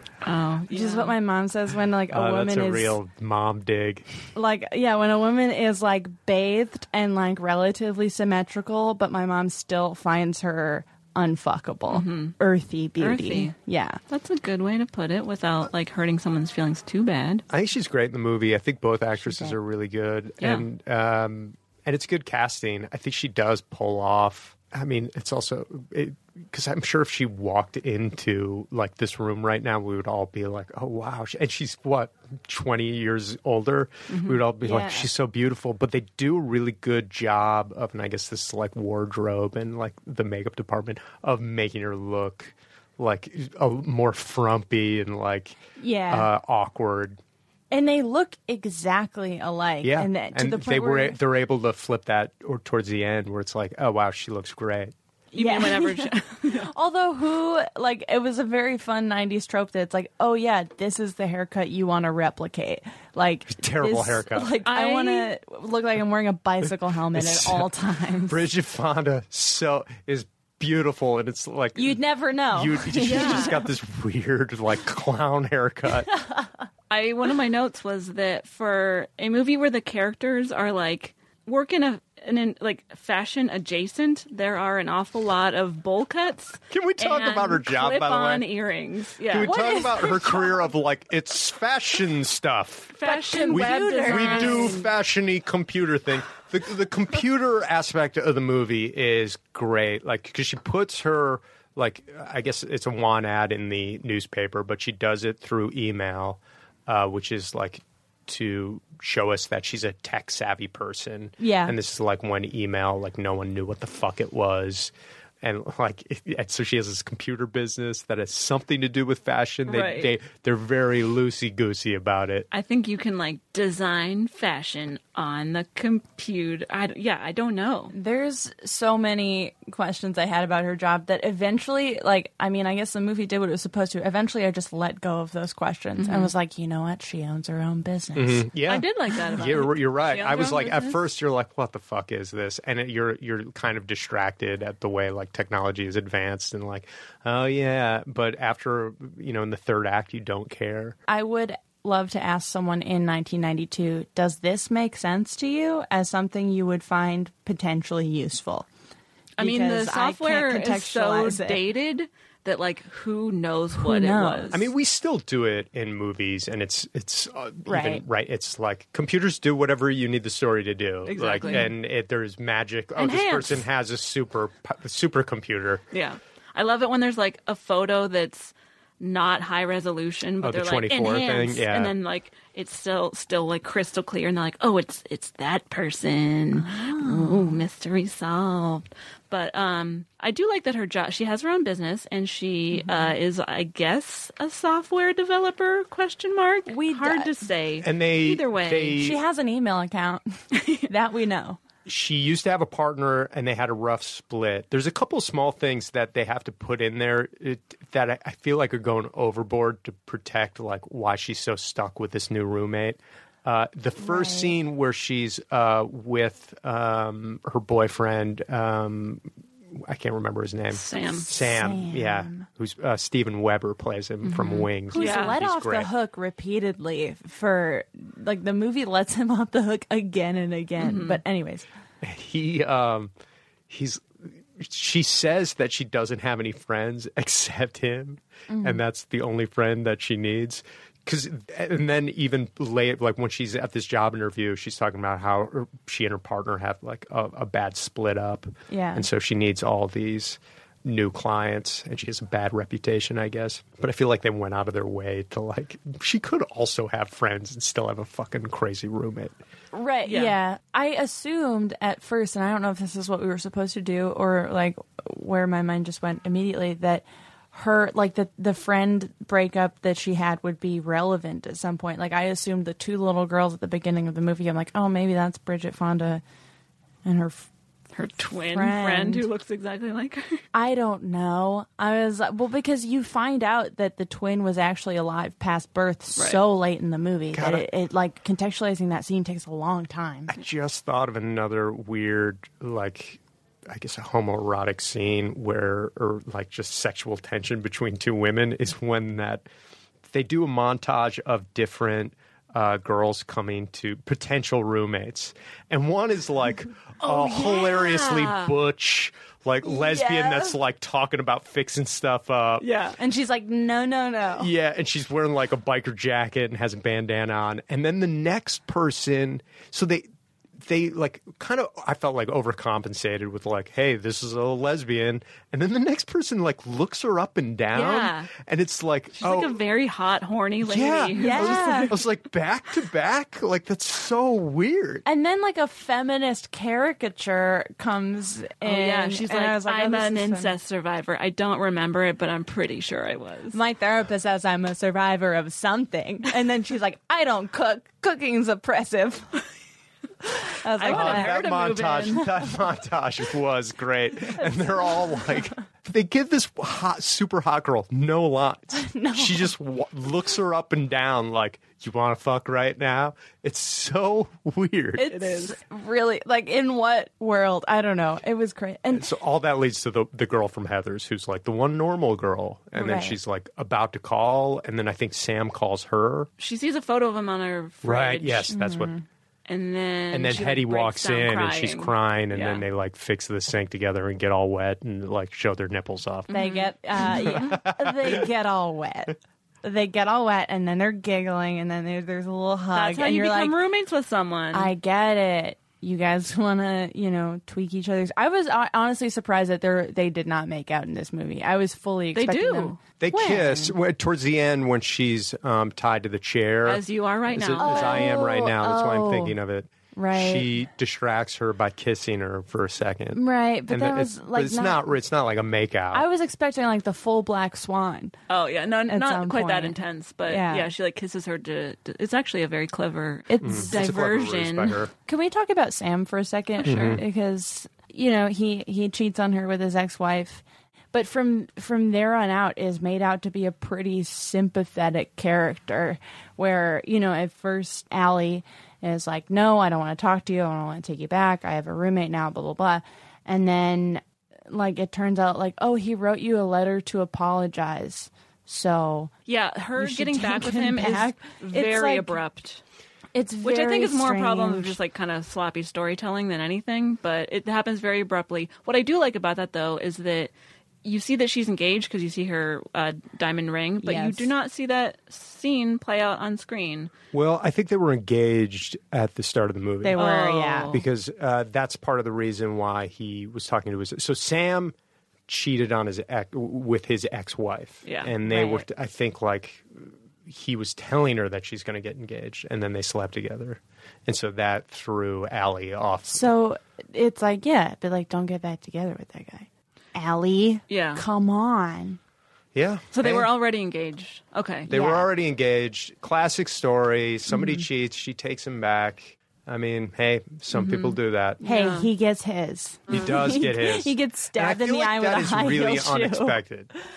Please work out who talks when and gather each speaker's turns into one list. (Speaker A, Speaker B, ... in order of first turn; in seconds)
Speaker A: 0.2-1.2, 11.9-12.3, 13.0-13.5, 14.1-17.4, 34.1-34.4, 55.3-56.7, 64.7-65.3, 73.0-73.6, 76.9-89.6, 93.0-94.9, 119.7-120.1, 122.5-127.9, 136.0-136.3, 138.7-141.0, 159.4-164.6, 171.1-171.7, 173.0-173.6, 175.9-199.0, 220.7-221.3, 224.2-225.3, 230.8-231.2, 260.1-260.4, 277.9-280.4, 307.0-308.5, 312.6-313.0, 327.7-328.3, 329.2-332.0, 338.6-343.6, 350.8-352.2, 365.1-365.6, 376.4-378.5, 379.5-382.6, 386.3-387.5, 392.7-394.7, 402.1-402.8, 406.6-408.1, 418.3-424.8, 426.6-427.0, 449.3-452.6, 453.4-460.3, 460.8-466.9, 470.0-470.8, 477.9-478.2, 490.7-491.0, 492.9-494.7, 500.5-501.9
Speaker B: 0.7-3.0, 4.3-14.0, 19.2-19.6, 34.6-35.1, 45.8-46.3, 47.7-51.2, 55.3-68.4, 71.8-73.7, 76.1-76.5, 89.4-90.7, 93.0-94.9, 111.4-111.8, 127.9-138.5, 151.1-158.7, 159.4-161.6, 163.8-164.6, 167.7-168.0, 186.6-187.6, 192.8-193.1, 196.7-197.4, 199.0-200.2, 200.9-201.6, 214.0-214.6, 221.3-222.5, 224.9-231.7, 238.5-238.8, 248.7-249.1, 259.7-276.2, 277.1-277.5, 278.5-279.2, 280.5-290.3, 309.6-310.6, 313.0-314.5, 331.2-331.9, 335.1-340.6, 343.5-349.4, 350.3-351.4, 354.4-355.3, 358.7-359.5, 365.0-369.1, 372.8-373.2, 378.5-379.0, 386.3-393.6, 394.5-403.7, 407.6-409.4, 409.9-410.5, 413.1-414.9, 415.9-418.1, 418.9-420.7, 423.3-423.9, 425.1-449.1, 449.8-452.2, 453.1-454.8, 463.8-464.3, 469.8-470.8, 478.3-478.6, 486.1-492.0, 494.7-495.1, 497.3-497.6, 501.4-506.4
Speaker C: 2.1-4.1, 17.5-45.6, 46.1-47.2, 49.8-54.9, 63.5-64.6, 66.6-67.7, 68.3-76.1, 86.7-88.5, 89.3-122.5, 138.2-151.0, 164.5-175.8, 180.4-181.9, 197.8-199.2, 201.9-225.9, 232.0-233.1, 233.7-259.3, 287.3-287.7, 290.3-299.5, 300.1-312.7, 314.4-320.1, 320.6-329.6, 330.6-335.0, 350.9-365.1, 368.9-376.3, 377.8-378.9, 380.1-386.4, 387.0-388.3, 403.0-416.1, 423.4-424.9, 426.6-427.0, 467.1-470.0, 470.7-474.8, 475.3-486.3, 492.5-493.3, 494.7-501.4, 502.9-506.7